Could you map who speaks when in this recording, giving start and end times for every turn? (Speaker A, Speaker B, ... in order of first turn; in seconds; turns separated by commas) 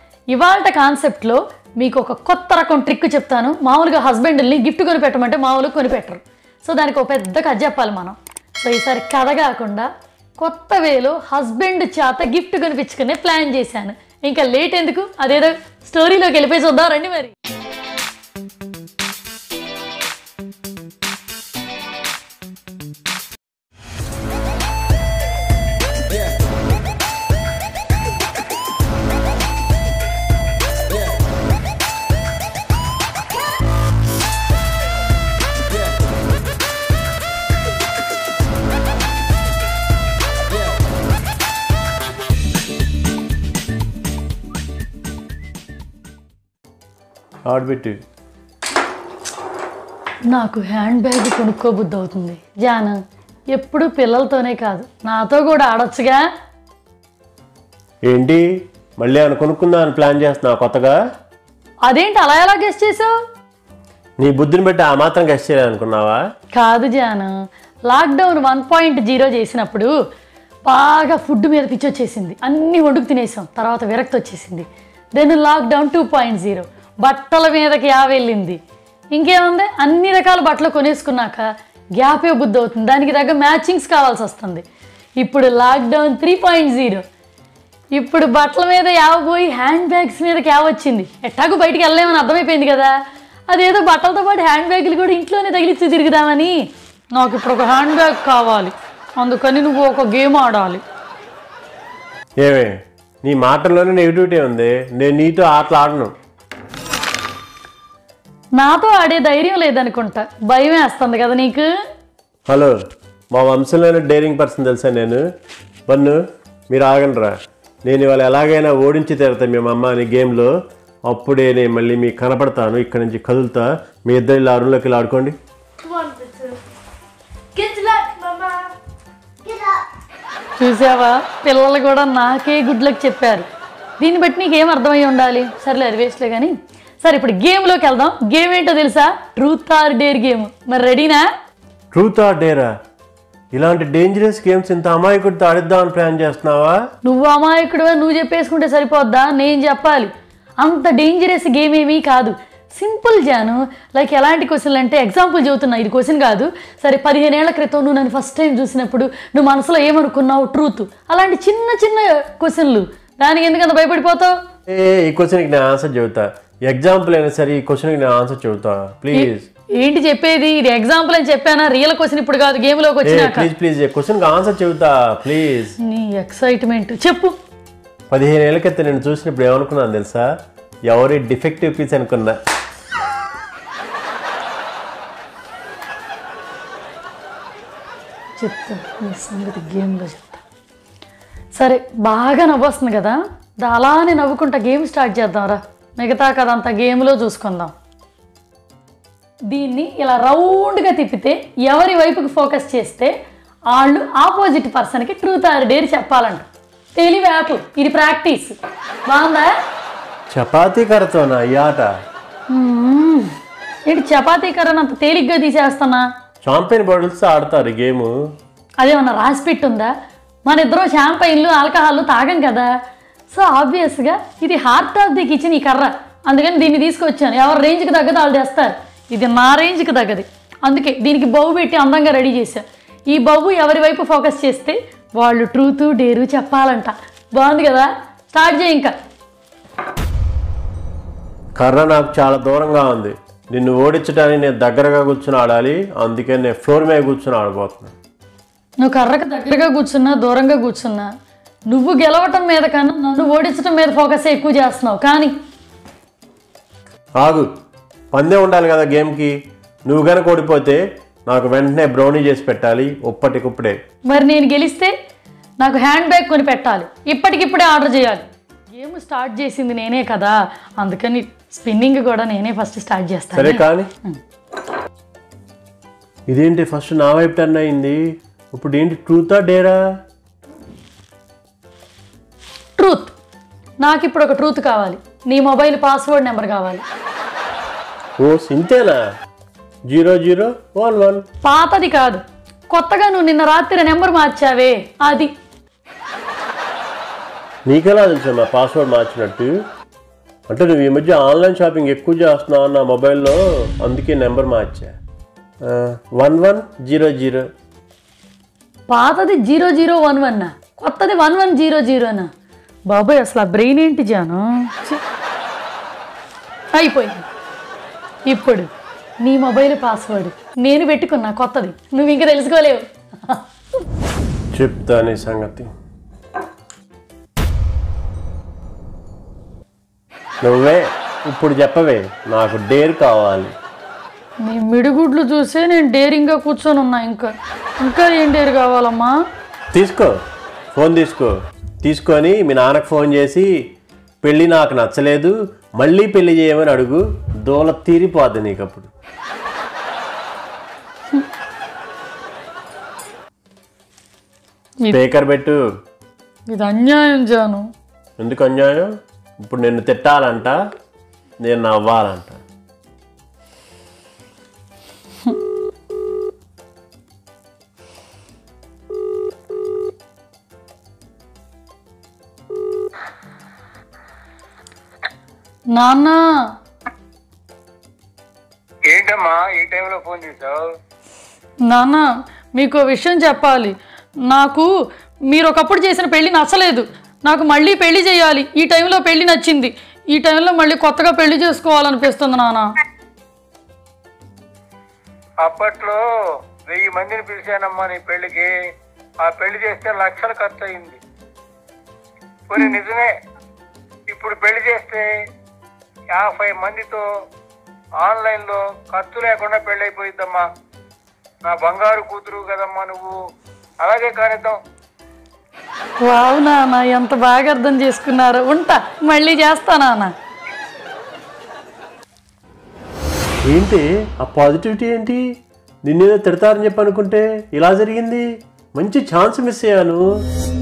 Speaker A: 0.3-9.9, Speaker A: 10.4-17.3, Speaker B: 47.5-48.0, Speaker A: 50.3-53.0, Speaker A: 53.5-56.2, Speaker B: 58.0-61.0, Speaker A: 61.9-63.1, Speaker B: 64.2-66.2, Speaker A: 66.5-67.3, Speaker A: 67.9-69.9, Speaker A: 70.7-78.6, Speaker A: 79.1-81.4, Speaker A: 82.0-84.6, Speaker A: 85.2-87.0, Speaker A: 87.9-92.9, Speaker A: 93.5-96.5, Speaker A: 97.1-100.8, Speaker B: 102.4-106.1, Speaker A: 108.6-111.7, Speaker B: 112.5-112.7, Speaker B: 113.3-115.2, Speaker B: 115.9-120.5, Speaker B: 121.1-125.3, Speaker A: 125.8-126.6, Speaker A: 127.5-128.7, Speaker A: 130.6-133.4, Speaker A: 134.0-141.2, Speaker B: 141.9-142.7, Speaker B: 143.5-146.8, Speaker A: 147.0-164.3, Speaker B: 164.7-169.4, Speaker A: 169.1-173.5, Speaker B: 173.0-175.8, Speaker A: 175.8-177.3, Speaker B: 178.1-180.3, Speaker B: 180.9-182.3, Speaker A: 188.4-190.4, Speaker A: 191.5-197.7, Speaker A: 199.5-203.1, Speaker A: 203.7-208.6, Speaker A: 209.1-209.5, Speaker B: 210.3-211.9, Speaker A: 212.5-213.3, Speaker A: 213.9-216.1, Speaker B: 216.4-218.1, Speaker A: 218.8-219.9, Speaker A: 220.4-222.7, Speaker A: 223.3-238.9, Speaker B: 241.6-247.9, Speaker A: 248.8-251.1, Speaker A: 251.7-255.3, Speaker B: 257.2-257.5, Speaker B: 258.1-263.8, Speaker A: 264.1-264.9, Speaker A: 265.6-274.2, Speaker B: 273.3-273.9, Speaker B: 276.3-278.0, Speaker B: 278.5-279.8, Speaker A: 282.8-283.1, Speaker A: 283.8-286.8, Speaker B: 288.2-289.0, Speaker B: 289.9-291.2, Speaker A: 291.4-295.3, Speaker B: 297.7-299.6, Speaker B: 300.5-304.9, Speaker B: 305.6-307.4, Speaker A: 308.9-312.3, Speaker A: 312.9-315.0, Speaker A: 316.7-317.2, Speaker A: 318.3-318.7, Speaker A: 319.2-323.4, Speaker B: 324.5-325.7, Speaker B: 330.4-333.5, Speaker A: 334.4-339.1, Speaker B: 339.7-340.1, Speaker B: 340.7-343.5, Speaker B: 344.2-348.9, Speaker B: 354.9-355.6, Speaker A: 356.5-357.6, Speaker B: 358.2-360.6, Speaker B: 361.4-362.4, Speaker A: 375.7-376.2, Speaker C: 378.9-380.6, Speaker A: 381.7-383.7, Speaker A: 384.3-384.7, Speaker A: 385.3-392.7, Speaker C: 395.4-396.0, Speaker C: 396.7-398.5, Speaker C: 399.2-401.0, Speaker C: 402.5-403.1, Speaker C: 404.1-405.1, Speaker C: 406.1-407.0, Speaker C: 408.0-410.4, Speaker C: 411.4-413.1, Speaker C: 413.8-414.6, Speaker A: 416.0-420.1, Speaker B: 423.5-425.2, Speaker B: 425.9-430.0